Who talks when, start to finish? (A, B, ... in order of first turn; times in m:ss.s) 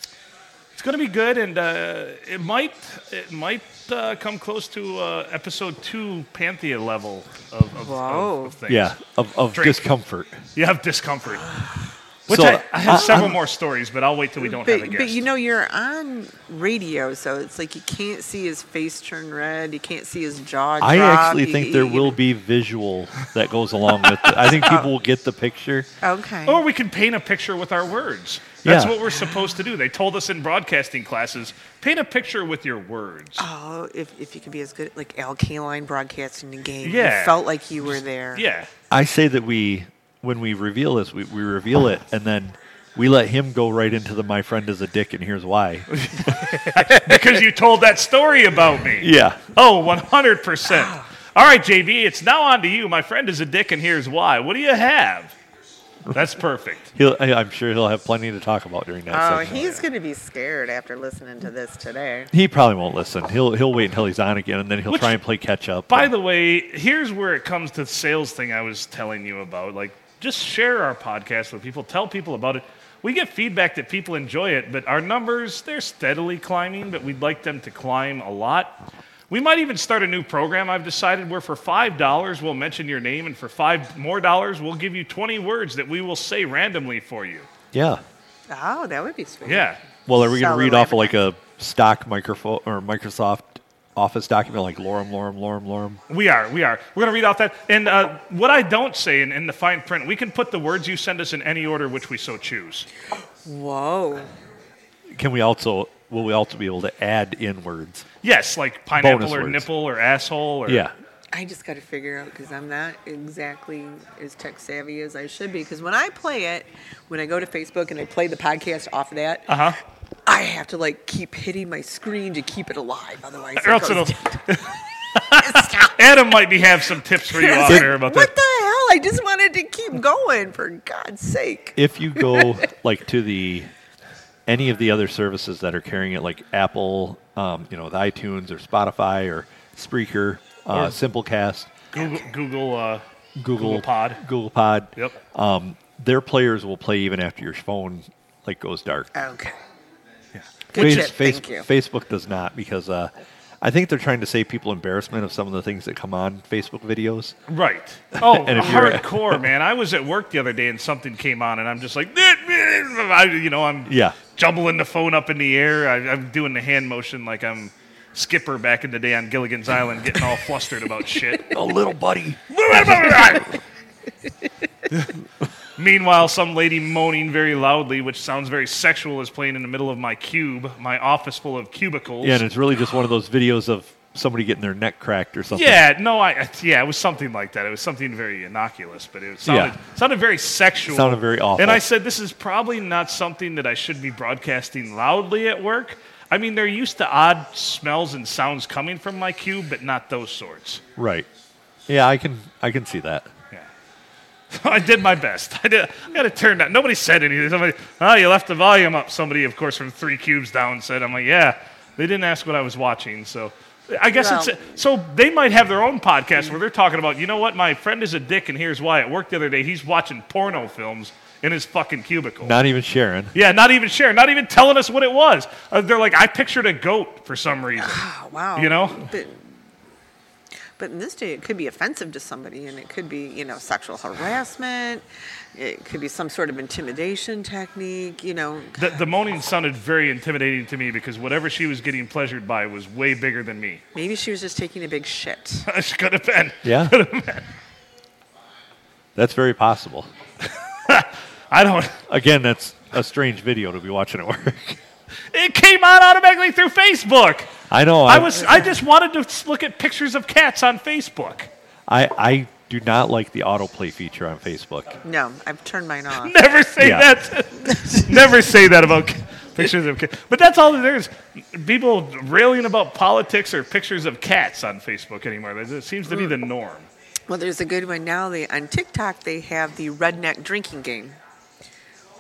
0:00.8-0:09.0 A
0:07.8-0:08.6 B
0:08.7-0:10.4 C
0:09.5-0:09.8 A
0:10.6-0:11.6 A
0:12.3-0:13.4 C
0:12.3-0:15.3 A
0:12.9-0:13.3 B
0:14.4-0:22.2 B
0:20.8-0:25.9 C
0:24.0-0:24.7 A
0:26.0-0:26.6 B
0:26.5-0:33.4 A
0:28.6-0:29.0 C
0:29.1-0:29.5 B
0:33.4-0:38.5 B
0:36.8-0:37.5 A
0:38.4-0:38.7 A
0:38.9-0:46.6 C
0:45.9-0:55.4 A
0:49.0-0:49.4 C
0:50.7-0:51.1 B
0:56.1-0:56.9 A
0:57.0-0:59.8 C
0:59.1-1:02.3 B
1:02.3-1:06.1 C
1:04.9-1:05.2 A
1:05.9-1:27.5 A
1:27.7-1:28.0 C
1:28.5-1:29.7 B
1:29.5-1:29.8 A
1:30.1-1:36.0 C
1:30.2-1:31.2 B
1:36.1-1:42.9 A
1:43.4-1:44.3 B
1:45.1-1:48.1 C
1:48.2-1:50.9 A
1:49.0-1:49.7 C
1:50.7-1:50.9 C
1:51.3-1:59.7 B
1:59.5-1:59.8 A
2:00.3-2:04.4 B
2:03.6-2:08.3 A
2:05.3-2:06.0 B
2:07.3-2:12.7 B
2:11.8-2:13.7 C
2:14.5-2:21.7 C
2:20.7-2:21.0 A
2:21.9-2:23.0 A
2:22.0-2:22.3 B
2:23.4-2:29.1 C
2:23.6-2:24.2 A
2:29.1-2:29.6 B
2:30.4-2:31.0 A
2:30.7-2:31.7 B
2:30.8-2:37.4 C
2:37.5-2:51.6 A
2:38.2-2:39.4 C
2:43.9-2:44.2 C
2:51.5-2:53.5 C
2:52.5-2:53.6 A
2:55.8-3:02.4 A
3:02.2-3:05.8 C
3:05.5-3:20.8 A
3:09.4-3:09.8 C
3:10.9-3:11.8 C
3:21.0-3:21.3 C
3:21.9-3:23.3 C
3:24.5-3:42.6 A
3:34.1-3:34.6 B
3:42.4-3:43.3 C
3:43.3-3:48.0 A
3:47.8-3:49.4 B
3:48.6-3:49.0 A
3:50.8-3:59.0 B
3:58.8-4:03.8 A
4:03.9-4:05.7 B
4:05.7-4:07.5 A
4:06.6-4:07.0 C
4:09.2-4:10.1 C
4:10.9-4:12.0 A
4:12.1-4:14.8 C
4:15.3-4:21.5 A
4:17.7-4:18.6 C
4:21.9-4:25.0 C
4:25.0-4:26.4 B
4:26.2-4:36.9 A
4:26.8-4:27.1 C
4:27.6-4:28.1 B
4:36.1-4:36.3 B
4:37.3-4:41.2 B